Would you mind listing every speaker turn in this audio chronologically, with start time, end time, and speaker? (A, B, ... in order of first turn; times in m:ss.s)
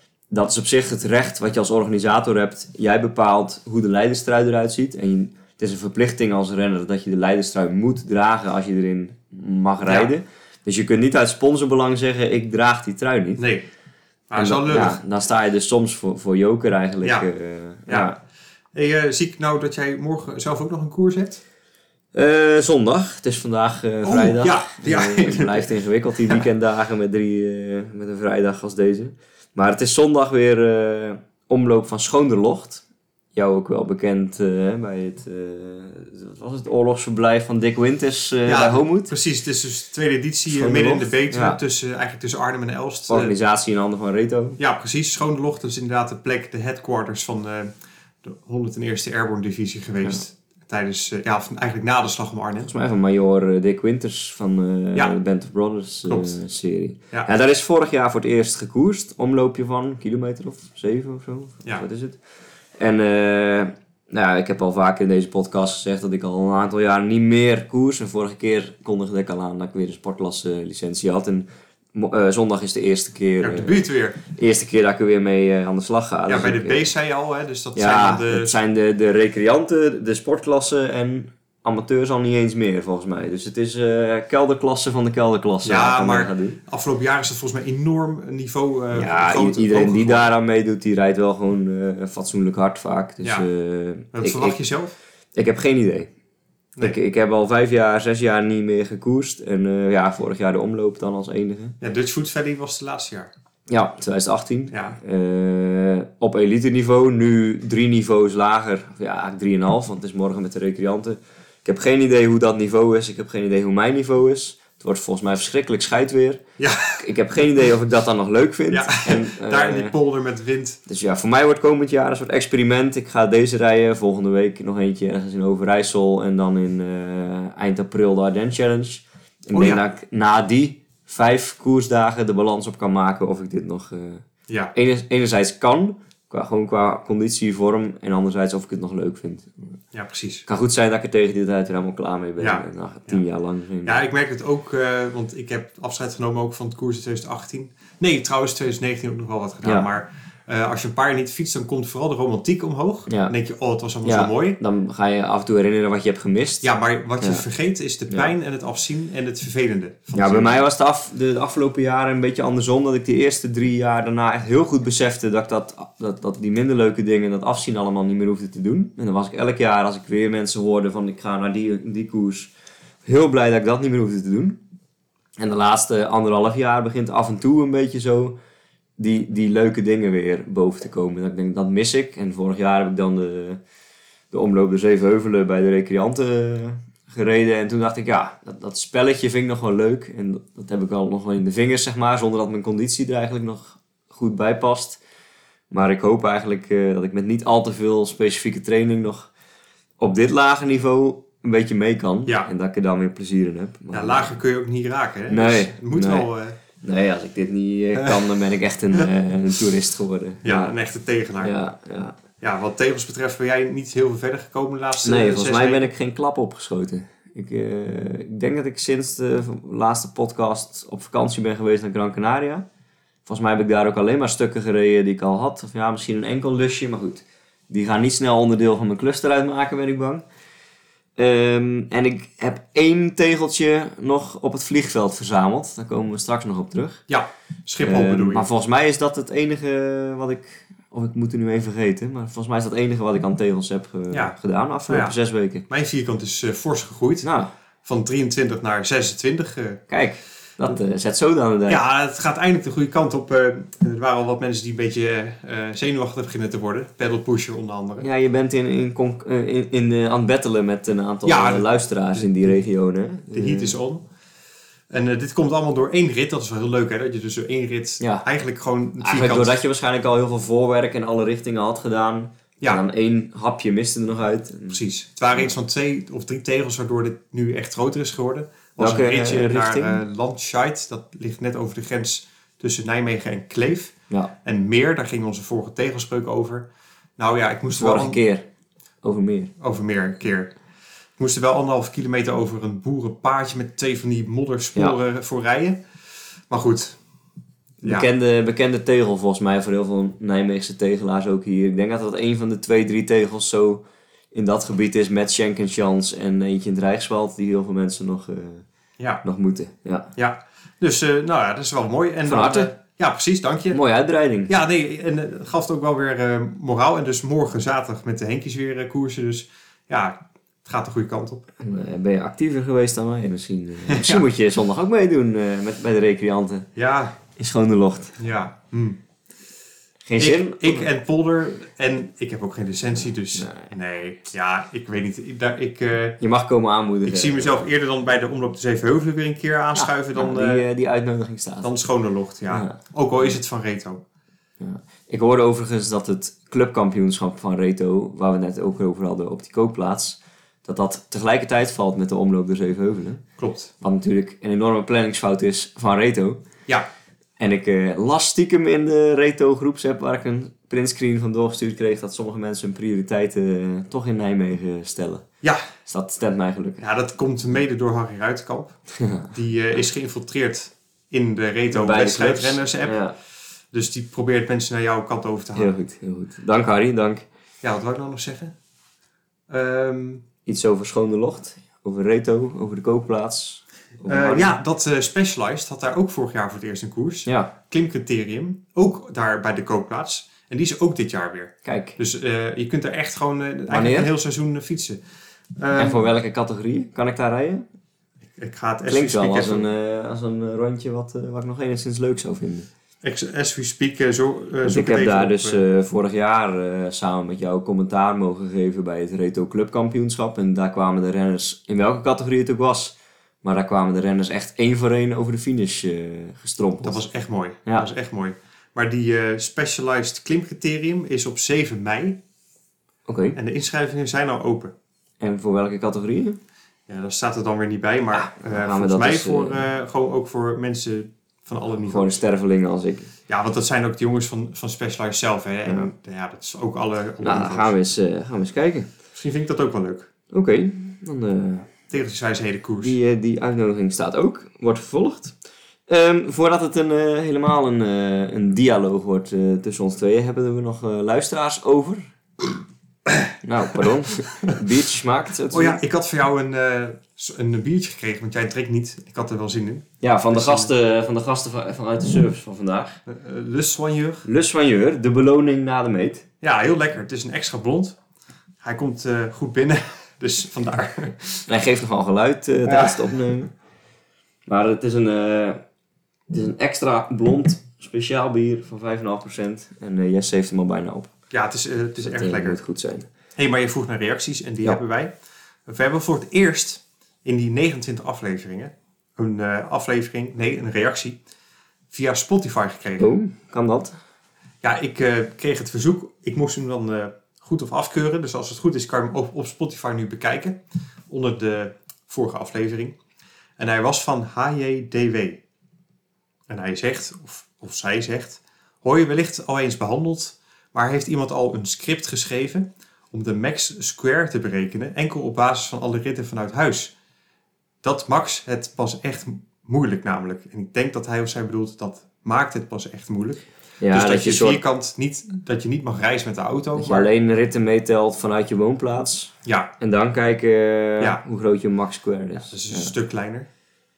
0:00.3-0:13.4 A
0:09.8-0:10.1 B
0:13.4-0:13.7 B
0:14.3-0:15.0 B
0:14.4-0:18.2 A
0:17.0-0:17.3 B
0:17.9-0:18.1 B
0:18.7-0:21.4 B
0:22.1-0:39.1 A
0:24.0-0:25.7 B
0:38.5-0:43.4 B
0:40.5-0:41.6 A
0:43.1-0:44.6 A
0:44.6-0:47.7 B
0:48.2-0:52.7 B
0:52.6-1:02.2 A
0:56.1-0:56.4 B
1:02.8-1:16.9 A
1:13.4-1:14.2 B
1:16.3-1:18.6 B
1:17.8-1:26.6 A
1:25.6-1:30.3 B
1:28.9-1:34.6 A
1:34.1-1:34.9 B
1:35.4-1:36.1 A
1:36.8-1:41.8 A
1:41.8-1:43.3 B
1:43.7-1:56.4 A
1:44.7-1:45.0 B
1:56.6-1:57.0 B
1:57.0-2:00.0 A
1:58.7-2:00.8 B
2:00.9-2:19.5 A
2:09.5-2:09.8 B
2:14.5-2:14.7 B
2:19.9-2:20.4 B
2:20.5-2:24.0 A
2:22.4-2:23.2 B
2:23.8-2:34.6 B
2:29.6-2:29.9 A
2:33.1-2:33.4 A
2:34.0-2:37.4 A
2:36.6-2:40.6 B
2:40.1-2:52.5 A
2:53.0-2:54.6 A
2:55.4-2:58.4 A
2:59.0-3:03.6 A
3:04.3-3:15.0 A
3:15.7-3:19.3 A
3:20.0-3:24.4 A
3:23.9-3:26.6 B
3:25.3-3:26.3 A
3:26.8-3:30.8 A
3:28.0-3:28.2 B
3:30.4-3:31.6 B
3:31.4-3:32.2 A
3:32.4-3:35.9 B
3:35.0-3:42.6 A
3:43.3-3:50.2 A
3:51.2-3:57.0 A
3:57.1-3:58.5 B
3:57.8-4:05.7 A
4:04.9-4:05.2 B
4:05.7-4:07.3 B
4:07.2-4:07.5 A
4:07.8-4:09.8 B
4:09.9-4:11.8 A
4:11.7-4:18.1 B
4:18.0-4:23.8 A
4:21.2-4:22.6 B
4:23.3-4:24.1 B
4:24.9-4:29.6 B
4:28.0-4:28.3 A
4:29.0-4:34.8 A
4:34.7-4:48.2 B
4:38.8-4:40.0 A
4:47.8-4:48.4 A
4:49.0-4:49.5 A
4:49.6-4:50.5 B
4:51.2-4:55.8 B
4:56.5-4:57.0 B
4:57.8-5:08.6 A
5:09.2-5:10.1 A
5:10.2-5:13.8 B
5:12.3-5:12.7 A
5:13.7-5:14.6 A
5:14.5-5:21.4 B
5:21.6-5:26.7 A
5:23.9-5:24.2 B
5:26.8-5:27.2 B
5:27.4-5:28.2 A
5:28.2-5:29.0 B
5:30.0-5:30.9 A
5:30.2-5:36.2 B
5:33.4-5:33.7 A
5:36.2-5:37.7 A
5:37.0-5:40.7 B
5:39.8-5:41.7 A
5:41.6-5:44.0 B
5:42.5-5:43.4 A
5:44.6-5:53.2 A
5:53.4-5:53.7 B
5:53.8-5:56.4 A
5:57.4-6:05.3 A
6:05.8-6:06.8 A
6:06.8-6:08.8 B
6:09.0-6:09.3 A
6:09.3-6:13.0 B
6:11.7-6:13.2 A
6:13.7-6:15.7 B
6:15.6-6:17.3 A
6:17.6-6:18.6 B
6:19.5-6:20.2 B
6:20.5-6:24.6 A
6:24.1-6:35.0 B
6:27.3-6:27.5 A
6:31.6-6:32.0 A
6:33.7-6:34.1 A
6:35.6-6:36.0 B
6:35.8-6:37.6 A
6:38.4-6:39.7 B
6:38.9-6:42.7 A
6:43.0-6:45.6 B
6:44.6-6:57.0 A
6:56.8-7:02.2 B
7:03.1-7:03.4 A
7:03.4-7:04.7 B
7:05.2-7:06.4 A
7:06.9-7:12.2 B
7:08.1-7:09.6 A
7:11.9-7:13.1 A
7:13.3-7:17.7 B
7:15.7-7:15.9 A
7:17.2-7:18.9 A
7:19.1-7:20.1 B
7:20.3-7:21.7 A
7:21.9-7:23.0 B
7:22.8-7:25.4 A
7:25.9-7:32.1 A
7:33.4-7:35.8 A
7:35.5-7:40.7 B
7:40.0-7:43.0 A
7:43.1-7:44.3 B
7:44.2-7:46.3 A
7:46.4-7:48.0 B
7:48.6-7:51.5 B
7:51.5-7:53.5 A
7:52.7-7:53.2 B
7:54.5-7:55.6 A
7:56.3-8:01.1 A
8:01.3-8:02.6 B
8:02.0-8:03.1 A
8:03.4-8:05.1 B
8:05.7-8:11.2 B
8:11.9-8:13.1 B
8:13.0-8:14.0 A
8:14.6-8:23.0 B
8:23.6-8:25.4 B
8:26.5-8:36.9 B
8:37.8-8:47.1 B
8:43.8-8:44.6 A
8:46.8-8:52.9 A
8:49.4-8:49.7 B
8:52.4-8:53.5 B